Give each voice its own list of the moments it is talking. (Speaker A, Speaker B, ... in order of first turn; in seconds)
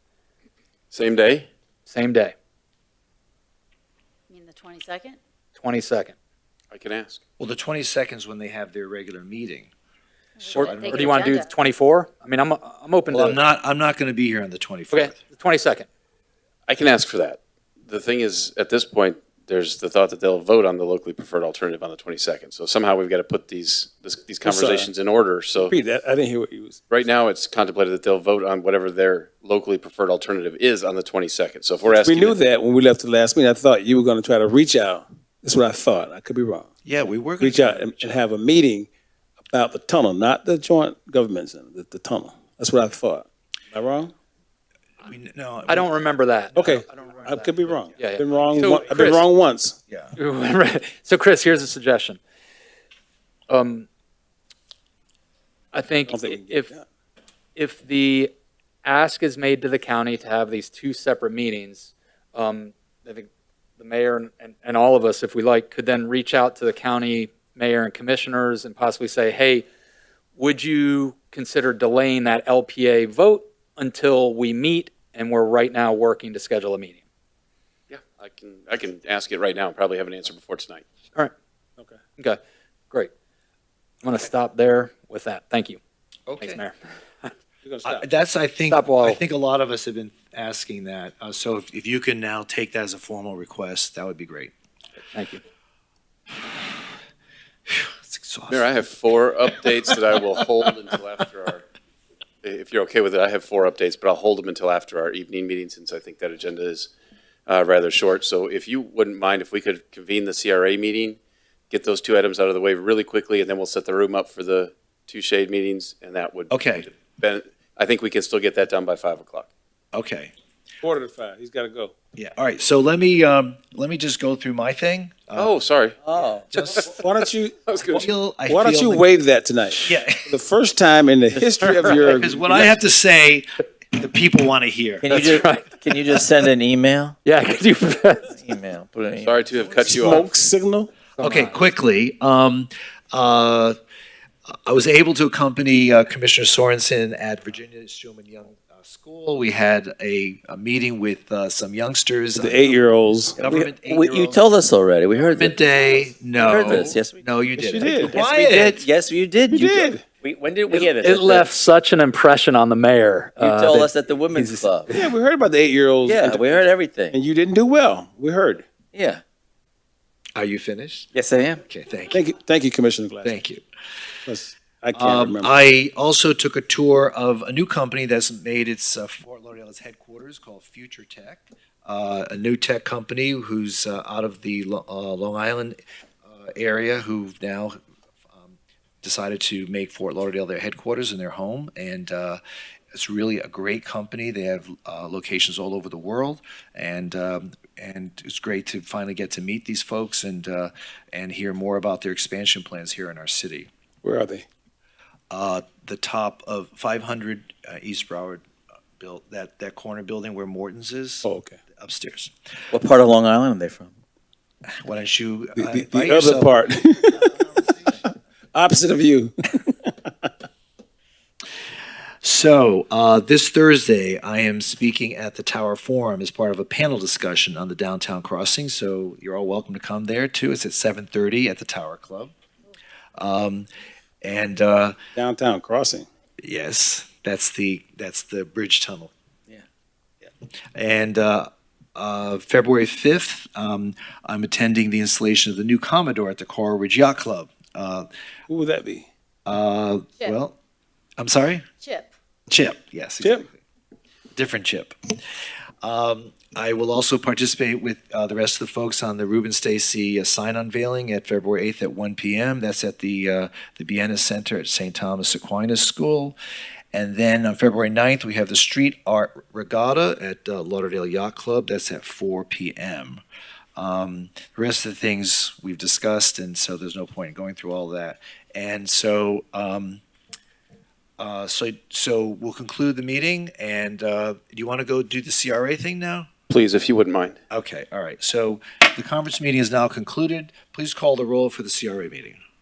Speaker A: 0.9-1.5, 6.7-7.2, 16.7-25.8, 26.9-32.4, 77.9-80.8, 98.5-101.6, 102.4-106.9, 107.5-111.2, 111.7-119.5, 125.4-126.0, 126.6-126.9, 127.7-128.1, 139.2-140.3, 286.5-287.4
Speaker B: 1.9-2.3, 5.6-6.2, 10.5-13.4, 14.9-15.9, 45.7-49.3, 50.2-52.2, 53.5-53.9, 55.7-56.7, 57.6-58.3, 58.8-69.7, 70.4-77.0, 84.0-85.8, 86.4-87.3, 88.7-89.2, 95.1-95.4, 131.6-132.0, 135.1-135.8, 137.2-138.3, 141.2-141.6, 160.7-165.1
Speaker C: 4.3-5.2, 10.4-11.5
Speaker D: 7.4-9.7, 10.5-11.3, 13.1-15.2, 36.9-38.2, 45.0-45.9, 49.9-50.2, 86.3-86.7, 87.8-94.5, 97.7-98.7, 116.5-116.9, 119.9-120.3, 122.2-125.6, 126.5-126.9, 128.0-129.1, 129.8-130.3, 132.0-135.1, 141.2-143.8, 144.7-152.8, 153.4-154.4, 155.2-158.9, 170.3-171.1, 171.7-172.2, 173.2-173.6, 174.9-187.8, 188.3-192.4, 192.9-203.7, 205.3-208.4, 209.0-211.3, 211.8-212.3, 214.8-216.6, 217.1-218.0, 222.2-232.3, 233.2-233.7, 234.2-235.0, 236.4-239.1, 240.8-248.1, 249.5-250.6, 251.2-251.7, 252.5-253.6, 254.3-255.1, 255.8-266.4, 266.9-273.2, 273.8-280.0, 281.2-286.3, 287.5-292.4
Speaker E: 24.4-24.9, 25.6-26.8, 31.9-36.7, 37.4-38.9, 39.5-44.1, 46.5-49.8, 56.1-56.8, 87.6-88.0, 120.8-121.9, 126.8-132.7, 139.8-140.9, 152.4-153.7, 157.6-158.2, 159.5-160.0, 164.9-168.7, 172.1-173.4, 174.3-175.5, 204.0-204.4, 211.2-211.6, 215.6-217.3, 218.1-220.3, 235.2-236.1, 248.5-249.1, 253.2-253.5
Speaker F: 126.0-126.8, 131.4-131.8, 135.0-137.2, 138.3-139.6, 153.8-155.6, 156.3-157.2, 157.8-161.5, 163.4-164.9, 166.1-167.2, 168.9-169.2, 171.1-171.6, 212.7-213.9